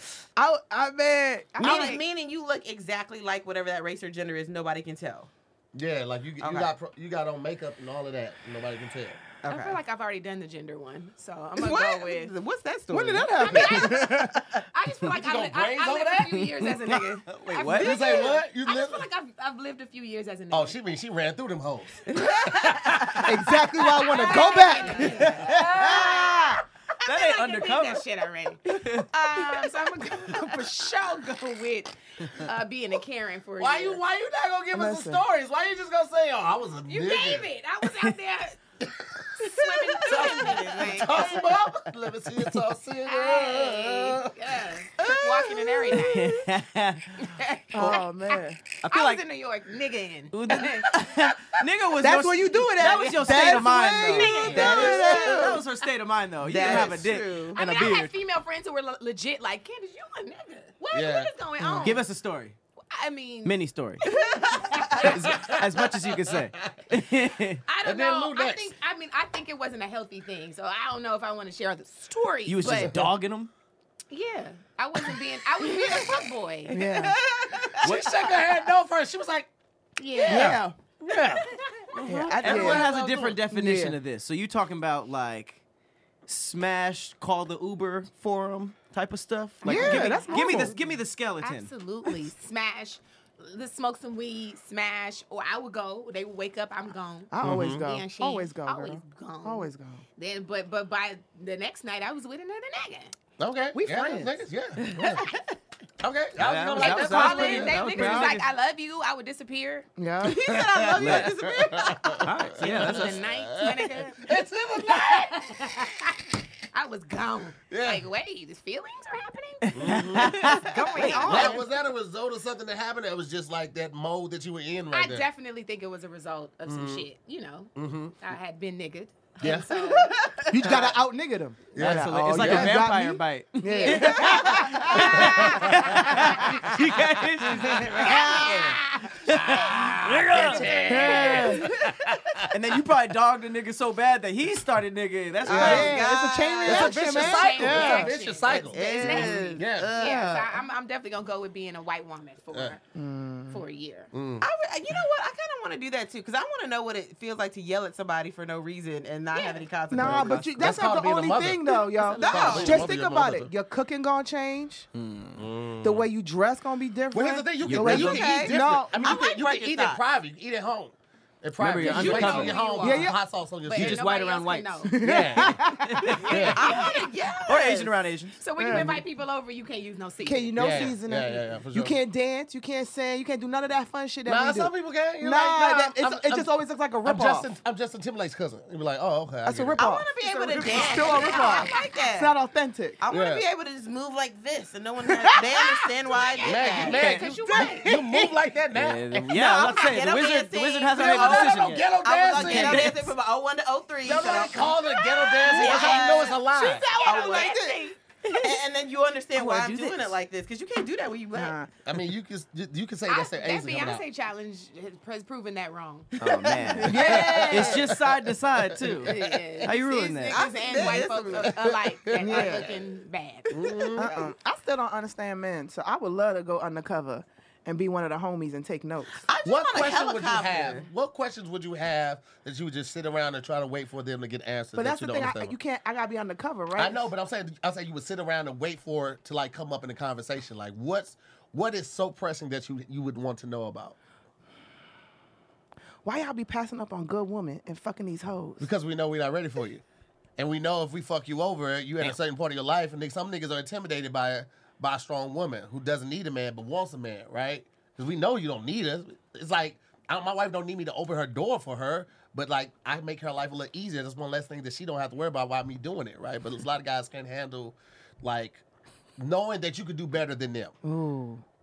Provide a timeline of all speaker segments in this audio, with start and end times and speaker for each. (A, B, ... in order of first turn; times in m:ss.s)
0:00.4-0:02.0 A
0:01.6-0:02.0 B
0:01.6-0:05.3 C
0:05.7-0:09.2 D
0:06.4-0:06.8 C
0:09.4-0:09.8 C
0:09.5-0:12.3 B
0:11.6-0:14.0 C
0:12.9-0:14.5 A
0:13.4-0:20.8 B
0:15.1-0:16.5 D
0:16.6-0:18.2 E
0:17.7-0:19.1 D
0:20.5-0:23.3 D
0:22.1-0:22.5 C
0:23.2-0:26.3 A
0:23.9-0:34.0 B
0:25.2-0:26.2 E
0:27.0-0:28.1 E
0:28.7-0:30.4 E
0:33.6-0:37.5 D
0:34.7-0:35.2 A
0:36.9-0:38.6 B
0:37.8-0:38.1 E
0:38.9-0:39.3 D
0:39.4-0:41.5 B
0:39.9-0:44.6 D
0:40.0-0:41.4 C
0:43.0-0:46.5 B
0:45.0-0:46.1 C
0:45.9-0:47.3 E
0:47.2-0:48.1 B
0:47.7-0:48.6 A
0:48.8-0:49.3 E
0:48.9-0:51.0 B
0:50.3-0:58.2 E
0:52.0-0:55.6 A
0:52.8-0:55.4 B
0:54.0-0:55.6 C
0:56.4-0:57.6 C
0:57.5-1:02.1 B
1:00.9-1:01.3 D
1:01.6-1:01.9 A
1:01.8-1:02.6 E
1:02.9-1:05.6 B
1:03.4-1:04.1 E
1:05.0-1:07.6 E
1:05.3-1:05.5 D
1:07.7-1:13.0 B
1:07.8-1:08.7 D
1:12.5-1:13.5 E
1:14.1-1:17.1 B
1:16.7-1:17.2 A
1:16.7-1:18.0 C
1:17.8-1:19.5 D
1:20.0-1:20.6 B
1:20.2-1:21.4 D
1:20.3-1:20.7 A
1:22.0-1:23.4 D
1:22.0-1:22.9 A
1:22.4-1:25.6 E
1:23.5-1:24.0 A
1:26.3-1:32.3 E
1:29.6-1:30.8 B
1:29.6-1:30.8 A
1:31.4-1:43.1 B
1:37.3-1:40.0 A
1:37.4-1:37.9 D
1:43.4-1:45.3 D
1:43.7-1:44.5 A
1:44.8-1:45.3 E
1:46.0-1:48.2 D
1:46.4-1:48.5 E
1:46.7-1:49.9 B
1:50.0-1:50.6 A
1:50.2-1:52.8 C
1:50.5-1:55.8 D
1:51.0-1:51.4 E
1:52.2-1:53.3 E
1:52.6-1:56.2 B
1:56.7-2:01.6 B
1:57.7-1:58.0 D
1:59.6-2:01.5 E
1:59.7-2:00.4 D
2:00.8-2:01.2 C
2:01.0-2:01.6 A
2:01.2-2:05.3 D
2:04.9-2:10.3 B
2:06.7-2:07.1 D
2:07.8-2:08.2 D
2:09.4-2:10.0 D
2:09.7-2:10.4 C
2:10.5-2:16.5 A
2:11.7-2:12.8 D
2:11.8-2:20.8 E
2:13.7-2:16.6 B
2:15.2-2:16.0 D
2:17.7-2:19.9 B
2:18.2-2:18.5 C
2:19.3-2:22.5 D
2:20.8-2:21.8 A
2:20.9-2:21.7 B
2:22.5-2:26.1 E
2:25.4-2:26.9 C
2:25.5-2:28.1 A
2:26.6-2:29.9 D
2:26.7-2:32.8 B
2:28.6-2:30.6 C
2:32.5-2:32.8 D
2:32.9-2:33.6 A
2:33.5-2:34.1 B
2:34.1-2:34.5 D
2:34.4-2:40.6 C
2:39.3-2:39.7 B
2:39.9-2:44.9 A
2:40.0-2:43.5 D
2:42.0-2:42.9 C
2:42.2-2:42.6 B
2:44.9-2:45.4 E
2:45.4-2:46.1 D
2:45.8-2:49.0 A
2:47.1-2:54.0 D
2:47.6-2:48.4 E
2:47.9-2:50.0 C
2:51.6-2:52.6 E
2:51.8-2:55.1 B
2:52.7-2:53.2 A
2:53.7-2:54.9 E
2:54.8-2:56.3 A
2:55.0-2:55.7 D
2:55.9-2:56.3 E
2:56.2-2:57.2 B
2:56.2-2:56.7 D
2:56.5-2:58.0 C
2:57.4-2:58.4 E
2:58.4-3:00.9 B
2:58.6-2:59.0 A
2:58.7-2:59.0 D
3:00.2-3:07.5 A
3:00.6-3:02.0 D
3:04.3-3:06.5 D
3:07.0-3:09.8 D
3:09.4-3:13.0 A
3:09.8-3:12.4 C
3:10.6-3:12.1 B
3:13.0-3:17.1 C
3:13.1-3:13.4 D
3:15.1-3:15.8 A
3:16.0-3:18.0 B
3:16.4-3:19.3 D
3:17.3-3:18.3 A
3:18.7-3:23.1 E
3:19.3-3:24.7 C
3:21.0-3:23.0 D
3:24.0-3:26.9 D
3:24.6-3:28.0 B
3:25.5-3:26.4 C
3:25.6-3:26.0 A
3:27.0-3:27.8 C
3:27.0-3:27.9 A
3:28.3-3:31.6 C
3:29.4-3:30.2 E
3:31.3-3:31.7 A
3:31.8-3:34.0 D
3:33.1-3:37.4 B
3:36.2-3:40.5 E
3:36.8-3:37.9 A
3:36.9-3:37.4 D
3:37.1-3:37.8 C
3:39.0-3:44.0 B
3:39.1-3:39.5 D
3:40.2-3:41.8 C
3:41.4-3:42.4 D
3:42.2-3:42.7 A
3:43.5-3:44.2 D
3:44.0-3:49.3 A
3:49.2-3:50.9 C
3:49.4-3:55.6 D
3:54.8-3:57.1 A
3:56.8-4:04.0 D
4:06.0-4:08.7 A
4:08.6-4:09.8 D
4:10.4-4:28.6 D
4:29.2-4:30.8 D
4:30.8-4:31.4 A